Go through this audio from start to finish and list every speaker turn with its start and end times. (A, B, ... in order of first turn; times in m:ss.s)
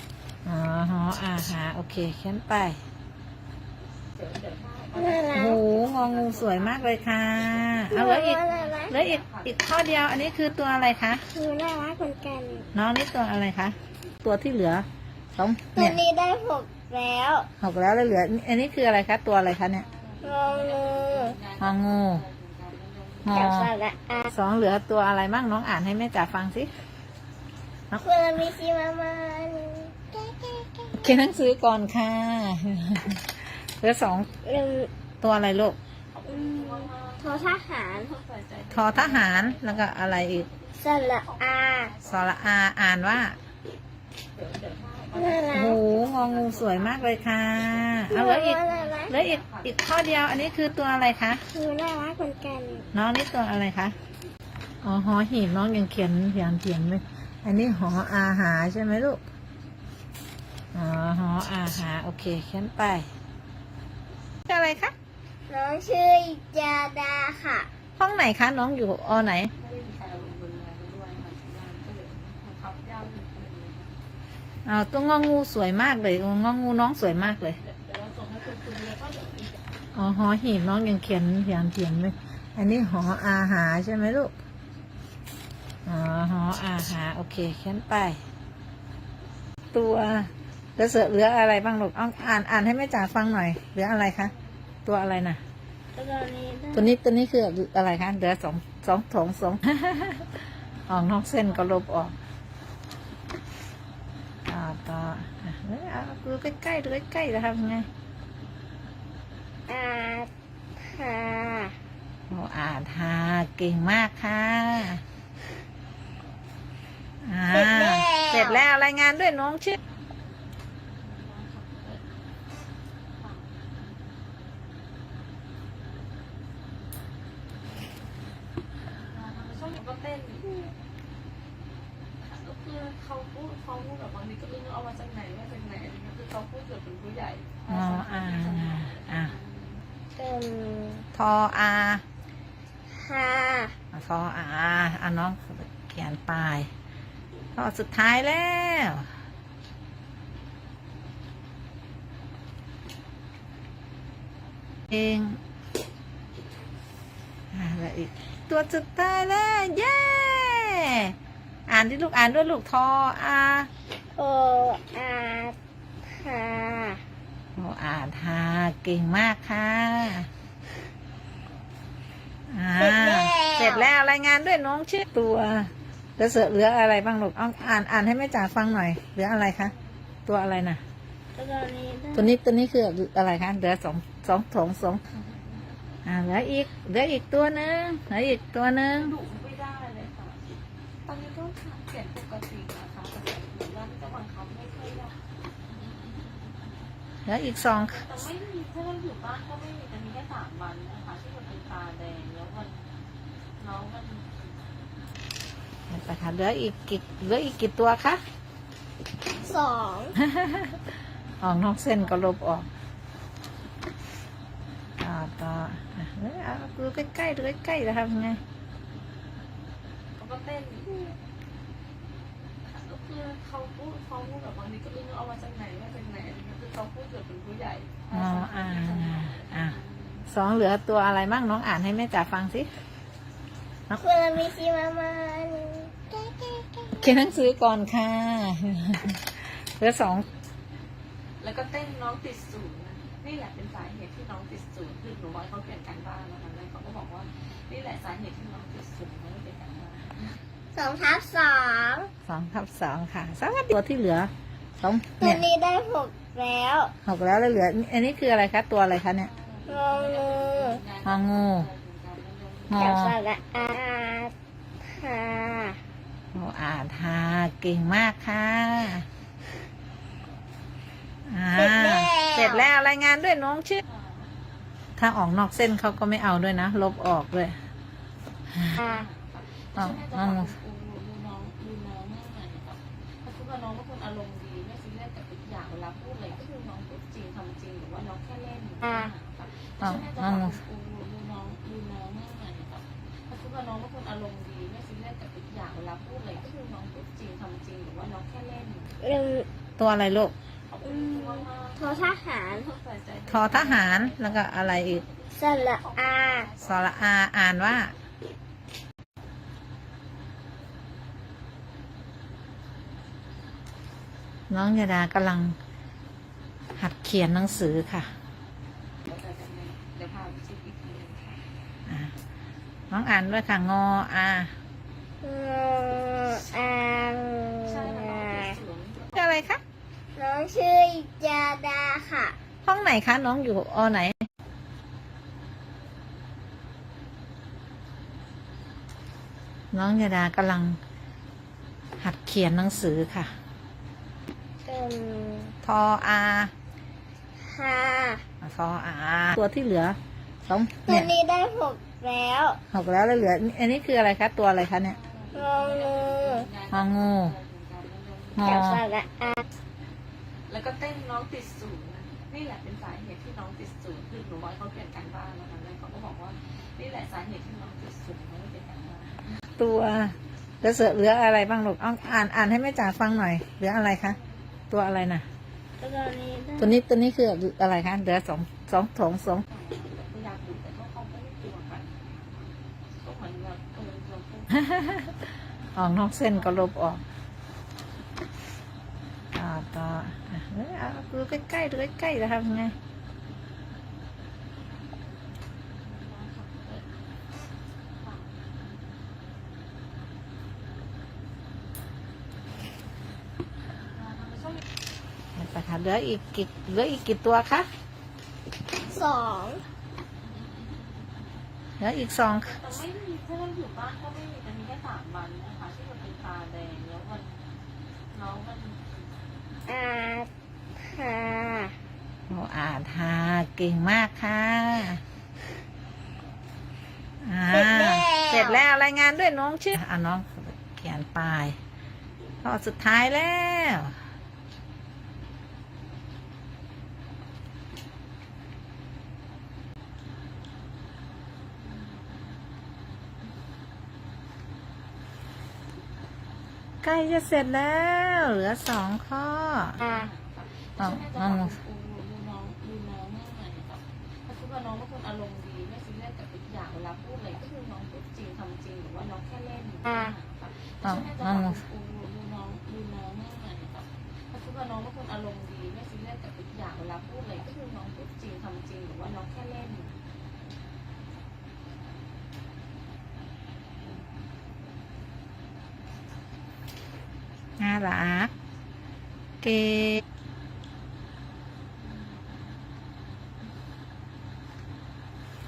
0:00.4-0:02.8 A
0:04.2-0:11.1 B
0:04.9-0:05.6 C
0:05.3-0:11.2 A
0:07.9-0:09.0 C
0:11.3-0:12.7 C
0:11.7-0:12.8 B
0:12.7-0:16.0 A
0:15.7-0:17.5 C
0:17.6-0:19.8 A
0:19.8-0:23.5 B
0:20.2-0:21.4 C
0:21.6-0:22.2 A
0:23.2-0:23.7 A
0:23.3-0:24.3 C
0:24.3-0:26.7 A
0:28.0-0:31.3 C
0:31.0-0:34.3 A
0:34.4-0:34.9 C
0:35.2-0:35.8 A
0:36.1-0:42.4 B
0:36.3-0:38.1 C
0:38.7-0:40.5 A
0:40.8-0:41.9 C
0:42.0-0:43.3 A
0:44.4-0:51.2 B
0:45.1-0:45.8 C
0:45.5-0:51.4 A
0:48.1-0:49.2 C
0:51.5-0:52.9 C
0:52.4-0:52.9 B
0:52.9-0:53.9 A
0:54.8-0:59.2 A
1:00.7-1:03.1 A
1:04.5-1:04.9 A
1:05.5-1:07.7 C
1:08.0-1:09.5 A
1:09.6-1:13.9 B
1:14.6-1:17.6 A
1:17.6-1:19.6 B
1:19.9-1:24.3 A
1:25.8-1:28.2 A
1:29.7-1:34.3 A
1:34.8-1:35.4 A
1:35.9-1:36.9 C
1:36.7-1:42.1 A
1:44.5-1:47.9 A
1:49.7-1:51.8 C
1:52.3-1:55.0 A
1:57.2-1:59.8 A
1:57.5-1:58.6 C
2:01.0-2:02.0 B
2:03.2-2:03.9 B
2:09.1-2:10.6 B
2:12.2-2:19.8 B
2:17.7-2:19.4 A
2:20.1-2:21.1 C
2:21.1-2:22.0 A
2:22.9-2:23.7 C
2:23.9-2:26.7 A
2:27.5-2:29.1 A
2:34.9-2:35.4 A
2:37.5-2:41.2 A
2:41.7-2:43.7 A
2:44.1-2:45.6 C
2:46.1-2:47.0 C
2:47.5-2:50.3 A
2:52.5-2:59.7 A
2:52.7-2:53.9 C
3:00.2-3:00.8 A
3:01.3-3:02.3 C
3:02.1-3:05.0 A
3:06.0-3:09.1 A
3:08.9-3:15.2 B
3:15.7-3:16.8 B
3:17.2-3:18.1 A
3:17.9-3:22.8 B
3:23.6-3:24.7 B
3:25.9-3:28.2 A
3:29.4-3:30.2 C
3:30.2-3:32.7 A
3:35.0-3:38.4 A
3:40.2-3:41.1 B
3:42.6-3:50.3 B
3:48.1-3:52.7 A
3:53.9-3:57.3 C
3:57.0-4:00.2 A
4:01.4-4:10.4 B
4:10.7-4:12.1 C
4:12.3-4:15.4 A
4:15.2-4:16.9 C
4:17.0-4:19.3 A
4:19.2-4:22.9 B
4:19.7-4:20.8 C
4:21.0-4:21.7 A
4:22.7-4:23.1 A
4:22.7-4:25.8 C
4:26.3-4:29.0 A
4:31.2-4:33.8 A
4:31.6-4:32.7 C
4:33.8-4:34.3 B
4:35.0-4:37.6 A
4:38.5-4:38.8 A
4:38.7-4:58.9 B
4:39.8-4:40.5 A
4:49.8-4:50.6 A
4:59.0-4:59.5 C
4:59.8-5:00.3 A
5:00.7-5:07.0 B
5:00.8-5:02.7 C
5:03.3-5:05.0 A
5:05.4-5:06.5 C
5:06.6-5:07.9 A
5:14.5-5:15.6 A
5:16.8-5:18.1 A
5:19.0-5:21.4 B
5:21.8-5:22.1 A
5:22.9-5:24.5 A
5:25.2-5:28.6 C
5:27.6-5:29.5 B
5:29.2-5:29.6 A
5:30.1-5:32.4 C
5:32.6-5:34.2 A
5:39.7-5:40.8 A
5:42.0-5:43.3 A
5:44.6-5:45.5 C
5:45.6-5:46.5 A
5:47.4-5:48.2 C
5:48.4-5:51.1 A
5:50.8-5:52.6 C
5:52.7-5:55.0 A
5:54.8-5:58.6 B
5:55.3-5:56.5 C
5:56.7-5:57.3 A
5:58.4-5:58.8 A
5:58.4-5:59.4 C
6:00.5-6:09.4 B
6:09.6-6:14.2 A
6:14.7-6:15.2 A
6:15.8-6:16.8 C
6:16.6-6:19.4 A
6:19.5-6:24.7 B
6:24.5-6:27.0 A
6:26.2-6:26.7 B
6:29.3-6:32.7 A
6:35.8-6:36.8 B
6:38.0-6:38.7 B
6:44.0-6:44.6 B
6:45.4-6:47.7 A
6:48.8-6:49.6 C
6:50.2-6:51.2 B
6:51.8-6:52.6 A
6:52.2-6:57.4 B
6:58.1-6:59.1 B
6:59.7-7:00.3 C
7:00.8-7:01.7 C
7:02.3-7:05.0 A
7:07.2-7:11.6 A
7:07.5-7:08.6 C
7:12.4-7:14.0 A
7:21.6-7:22.2 B
7:26.8-7:29.8 A
7:29.8-7:50.0 B
7:30.8-7:31.6 A
7:40.8-7:41.6 A
7:57.6-7:58.3 A
7:59.4-8:00.0 A
8:01.8-8:02.5 B